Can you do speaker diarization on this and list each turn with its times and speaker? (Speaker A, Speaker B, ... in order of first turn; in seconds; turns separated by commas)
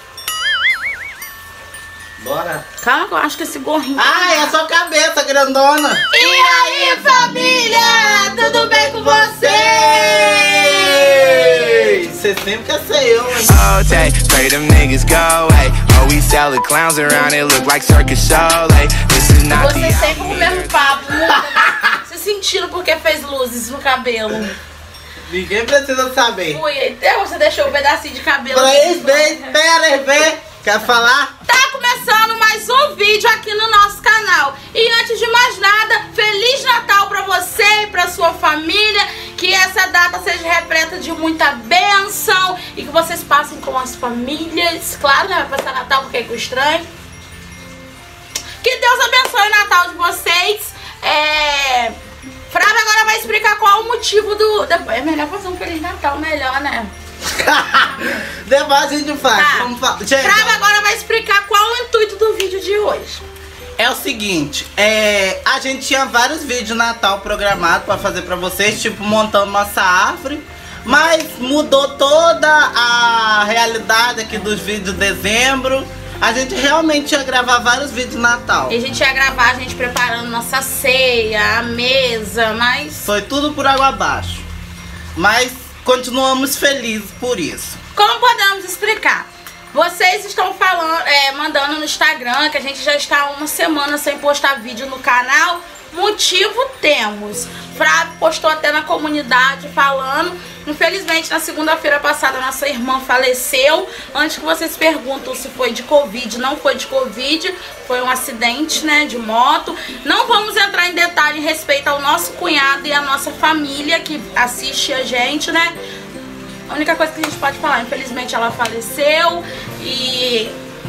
Speaker A: 2.2-2.6, Speaker B: 2.8-4.5, Speaker A: 4.0-13.6, Speaker B: 6.1-7.3, Speaker B: 8.4-12.0, Speaker C: 13.4-20.9, Speaker B: 19.5-24.6, Speaker A: 21.3-22.0, Speaker A: 25.2-26.6, Speaker B: 26.5-29.5, Speaker A: 28.5-31.3, Speaker B: 31.4-46.9, Speaker B: 48.6-52.0, Speaker B: 52.5-56.9, Speaker A: 57.2-60.5, Speaker B: 59.3-63.2, Speaker A: 63.8-78.8, Speaker B: 78.7-83.1, Speaker A: 83.0-84.4, Speaker A: 85.2-87.8, Speaker B: 87.9-115.7, Speaker B: 116.7-120.5